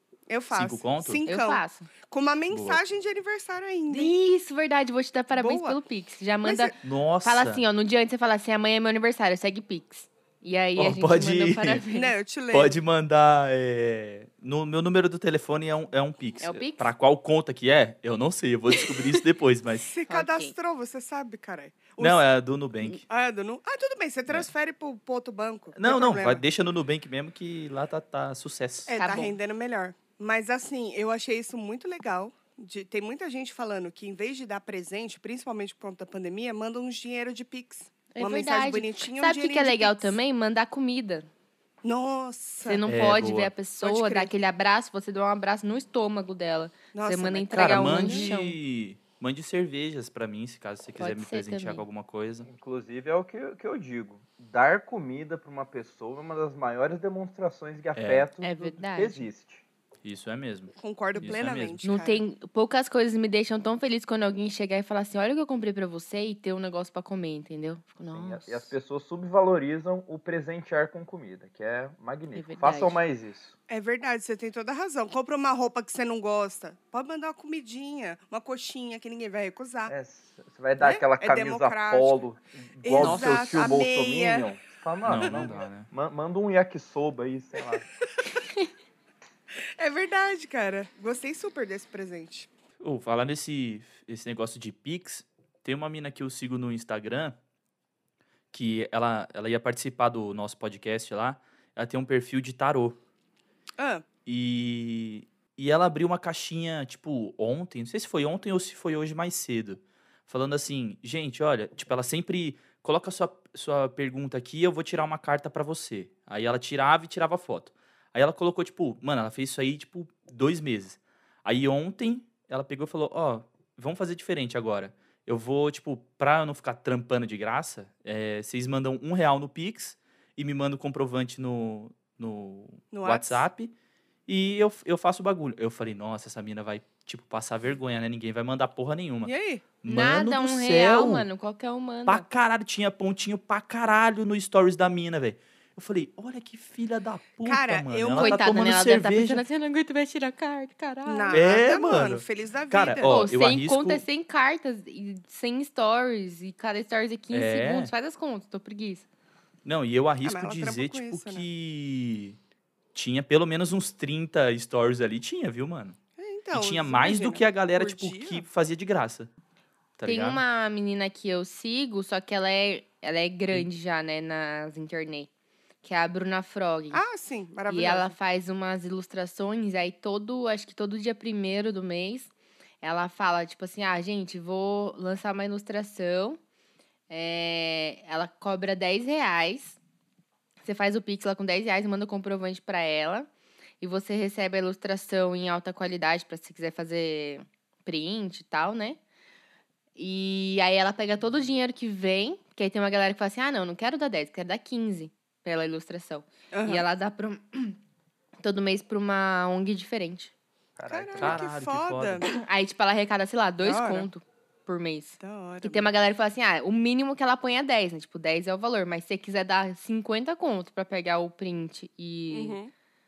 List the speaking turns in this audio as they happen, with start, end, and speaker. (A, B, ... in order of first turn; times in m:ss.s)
0:00.3-0:04.1 A
0:00.5-0:01.2 B
0:01.3-0:01.9 C
0:02.5-0:02.8 B
0:03.9-0:12.1 C
0:05.3-0:05.8 A
0:06.4-0:06.7 A
0:06.8-0:07.6 B
0:10.8-0:11.8 B
0:11.9-0:12.8 A
0:12.5-0:19.9 B
0:16.4-0:16.9 C
0:19.8-0:22.2 A
0:20.1-0:20.5 C
0:22.0-0:23.0 B
0:23.1-0:26.4 A
0:25.7-0:28.9 B
0:28.9-0:40.2 A
0:29.0-0:29.3 C
0:38.1-0:41.3 C
0:41.8-0:42.8 A
0:42.6-0:48.6 C
0:42.8-0:43.5 B
0:43.8-0:44.3 A
0:46.9-0:48.3 A
0:47.5-0:52.5 B
0:51.0-0:51.8 C
0:52.4-0:59.6 D
0:58.0-0:58.3 B
0:58.4-0:59.2 C
1:00.0-1:01.8 B
1:00.8-1:02.2 A
1:01.8-1:08.7 C
1:08.1-1:13.5 D
1:12.3-1:13.0 C
1:13.7-1:19.9 A
1:19.9-1:27.9 D
1:20.8-1:22.2 A
1:22.8-1:24.5 A
1:23.0-1:23.7 B
1:25.0-1:25.9 B
1:29.8-1:32.5 A
1:32.8-1:37.4 B
1:38.5-1:43.0 B
1:43.8-1:44.0 A
1:44.2-2:13.7 B
2:12.9-2:13.4 A
2:14.3-2:19.3 B
2:19.2-2:19.6 A
2:19.8-2:21.2 B
2:19.8-2:22.2 C
2:22.0-2:29.4 B
2:27.4-2:28.4 A
2:28.2-2:31.4 C
2:31.0-2:33.2 A
2:31.3-2:34.0 B
2:33.0-2:39.0 C
2:37.3-2:37.9 B
2:39.6-2:42.4 B
2:40.2-2:41.4 A
2:42.9-2:46.0 B
2:46.2-2:48.4 A
2:46.5-2:49.3 B
2:50.0-2:50.4 B
2:50.0-2:55.3 C
2:55.8-2:57.0 C
2:56.9-2:58.1 A
2:57.7-3:02.3 C
3:02.8-3:06.4 C
3:07.1-3:09.8 C
3:10.6-3:13.3 C
3:13.8-3:19.0 C
3:20.0-3:27.8 C
3:26.5-3:26.8 A
3:28.4-3:30.3 C
3:30.8-3:31.4 D
3:30.9-3:32.4 A
3:31.2-3:32.2 B
3:32.2-3:42.6 C
3:33.6-3:34.1 A
3:35.2-3:35.9 A
3:42.3-3:42.7 A